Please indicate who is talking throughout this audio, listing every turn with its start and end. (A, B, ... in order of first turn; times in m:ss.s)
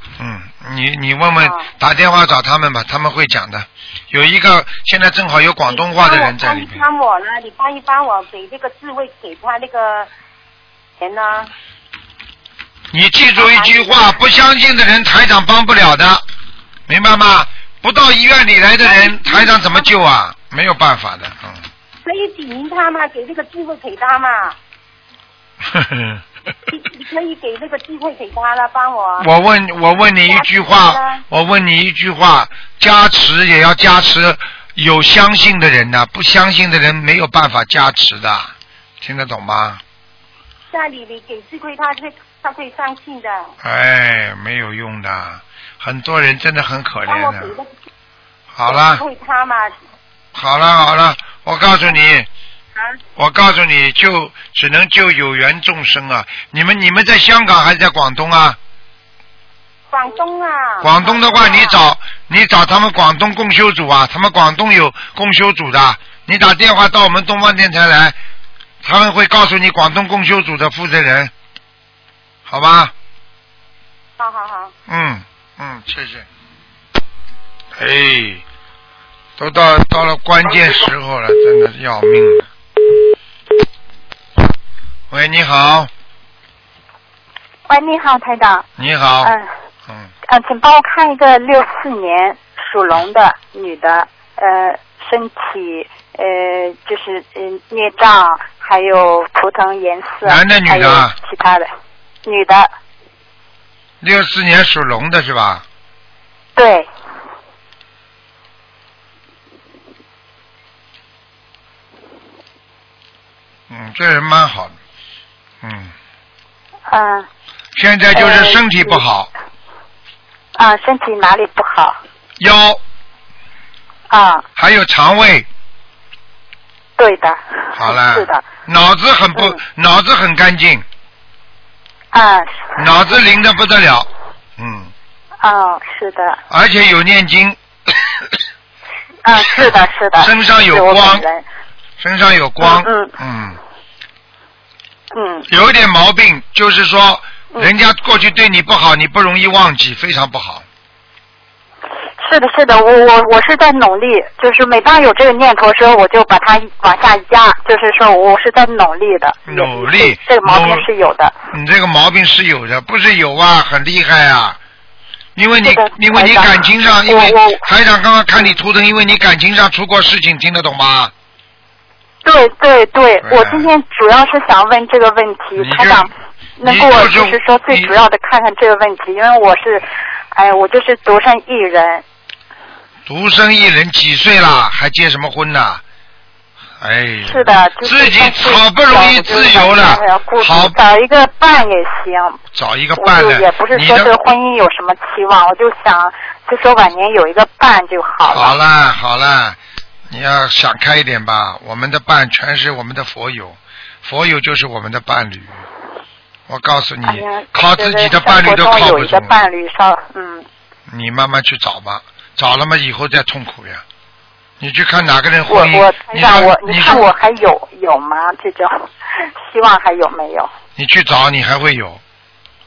0:00.2-0:06.8 A
0:01.4-0:01.7 B
0:05.7-0:10.1 B
0:11.0-0:11.5 B
0:12.9-0:16.2 A
0:13.4-0:14.1 B
0:16.9-0:21.6 A
0:18.8-0:19.9 B
0:22.0-0:24.6 B
0:25.7-0:26.2 A
0:26.7-0:29.3 B
0:29.2-0:39.8 A
0:30.3-0:31.2 B
0:40.7-0:43.5 B
0:43.6-0:47.5 A
0:47.1-0:47.7 B
0:48.5-0:49.0 A
0:48.7-0:49.7 B
0:50.3-0:52.3 A
0:53.2-0:58.6 A
0:59.9-1:01.8 B
1:00.8-1:08.2 A
1:08.8-1:11.3 A
1:12.5-1:12.9 A
1:14.2-1:14.7 B
1:14.9-1:16.3 A
1:17.8-1:18.4 A
1:19.4-1:22.5 A
1:25.1-1:25.9 A
1:27.7-1:28.7 C
1:28.8-1:29.3 A
1:29.2-1:29.5 C
1:30.3-1:41.7 C
1:40.2-1:41.2 A
1:42.2-1:42.7 C
1:44.0-1:45.6 A
1:46.6-1:46.9 C
1:53.7-1:54.8 A
1:55.6-1:55.9 A
1:56.9-1:57.3 C
1:57.8-1:59.3 A
1:58.1-1:59.0 C
2:00.6-2:02.0 C
2:02.4-2:02.8 A
2:04.1-2:04.5 C
2:04.6-2:05.5 A
2:07.0-2:08.4 C
2:07.8-2:10.8 A
2:12.1-2:13.0 C
2:12.8-2:14.9 A
2:15.4-2:16.4 C
2:16.5-2:17.6 A
2:19.2-2:21.4 C
2:20.2-2:21.2 A
2:22.0-2:23.6 A
2:22.6-2:23.1 C
2:25.1-2:25.5 C
2:25.5-2:30.6 A
2:32.2-2:41.4 C
2:39.5-2:40.8 A
2:41.5-2:44.6 A
2:45.4-2:51.1 A
2:45.6-2:47.6 C
2:52.2-3:02.0 C
2:53.2-2:53.7 A
2:55.6-2:56.1 A
2:56.6-2:57.9 A
3:03.1-3:05.8 A
3:06.8-3:10.8 A
3:07.2-3:12.4 C
3:12.5-3:14.1 A
3:13.0-3:18.6 C
3:18.3-3:19.6 A
3:20.1-3:25.6 A
3:26.5-3:29.4 A
3:27.1-3:30.5 C
3:30.9-3:33.8 A
3:34.6-3:37.1 A
3:35.5-3:40.5 C
3:40.8-3:42.0 A